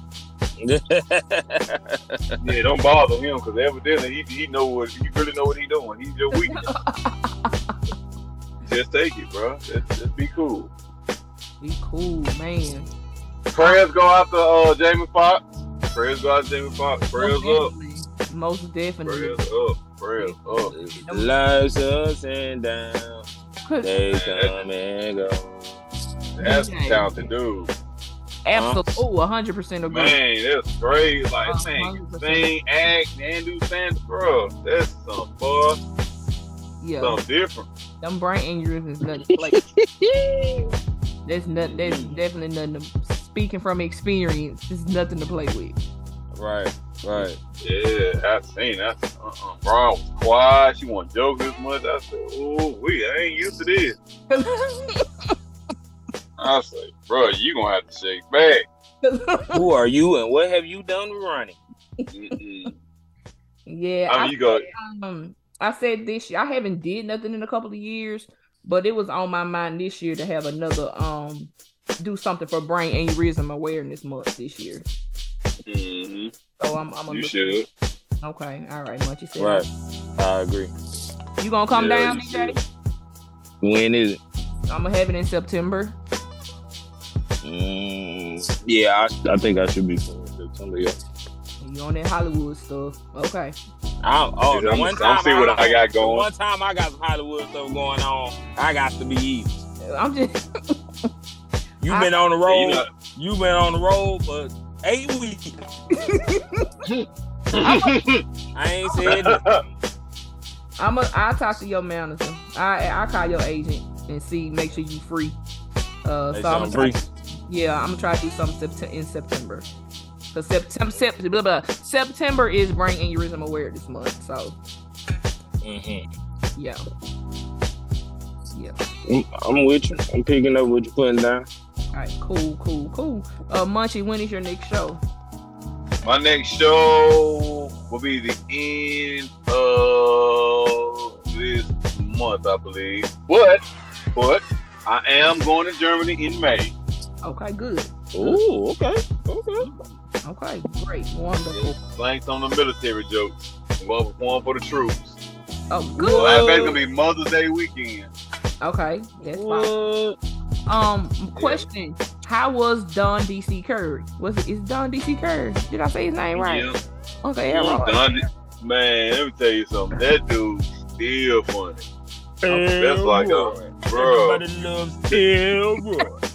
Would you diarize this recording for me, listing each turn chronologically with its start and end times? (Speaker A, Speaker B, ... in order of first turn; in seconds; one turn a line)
Speaker A: 0.6-2.3
Speaker B: 2.4-6.7
Speaker C: 6.3-7.7
Speaker B: 8.6-10.7
Speaker C: 11.6-12.9
Speaker B: 13.5-17.7
Speaker C: 17.1-19.4
Speaker B: 19.0-20.7
Speaker C: 20.2-21.3
Speaker A: 20.7-23.2
Speaker C: 23.6-23.9
Speaker A: 23.8-25.8
Speaker B: 24.1-24.6
Speaker B: 26.4-27.7
Speaker C: 26.4-27.2
Speaker C: 28.4-30.2
Speaker A: 28.5-28.8
Speaker B: 29.9-35.8
Speaker C: 31.4-32.5
Speaker C: 36.8-37.2
Speaker B: 37.0-37.7
Speaker C: 38.0-39.6
Speaker A: 39.3-40.7
Speaker C: 41.2-45.8
Speaker B: 41.6-42.1
Speaker A: 46.3-47.4
Speaker B: 47.6-54.0
Speaker C: 54.3-55.3
Speaker B: 56.4-58.6
Speaker C: 59.0-59.6
Speaker A: 59.5-61.6
Speaker B: 62.1-62.7
Speaker C: 63.7-74.8
Speaker B: 64.1-64.7
Speaker B: 75.7-76.3
Speaker C: 76.6-77.6
Speaker B: 77.1-77.7
Speaker C: 78.2-79.7
Speaker A: 79.4-79.7
Speaker A: 80.2-80.7
Speaker C: 81.4-82.6
Speaker B: 81.7-82.6
Speaker A: 83.6-84.2
Speaker C: 84.7-86.0
Speaker A: 87.4-91.0
Speaker C: 91.6-93.6
Speaker A: 94.0-99.5
Speaker B: 94.5-96.2
Speaker C: 99.9-100.8
Speaker A: 101.8-105.5
Speaker B: 102.5-102.9
Speaker C: 105.9-106.7
Speaker B: 106.9-108.2
Speaker C: 107.5-107.9
Speaker A: 108.5-109.4
Speaker B: 109.0-109.6
Speaker C: 110.8-115.4
Speaker C: 116.0-119.7
Speaker A: 116.3-117.0
Speaker C: 120.3-124.6
Speaker A: 125.6-126.0
Speaker C: 126.5-126.8
Speaker C: 128.5-128.8
Speaker A: 129.1-131.5
Speaker C: 131.9-135.0
Speaker B: 136.0-146.7
Speaker C: 147.2-148.4
Speaker A: 148.1-149.7
Speaker C: 149.6-151.8
Speaker B: 151.5-155.2
Speaker C: 155.7-156.5
Speaker A: 156.0-156.8
Speaker B: 156.1-158.1
Speaker C: 158.6-159.7
Speaker A: 159.3-160.2
Speaker C: 160.7-166.7
Speaker B: 161.3-161.6
Speaker B: 166.3-166.8
Speaker C: 167.2-168.0
Speaker B: 167.5-171.8
Speaker A: 172.4-176.1
Speaker B: 172.5-174.4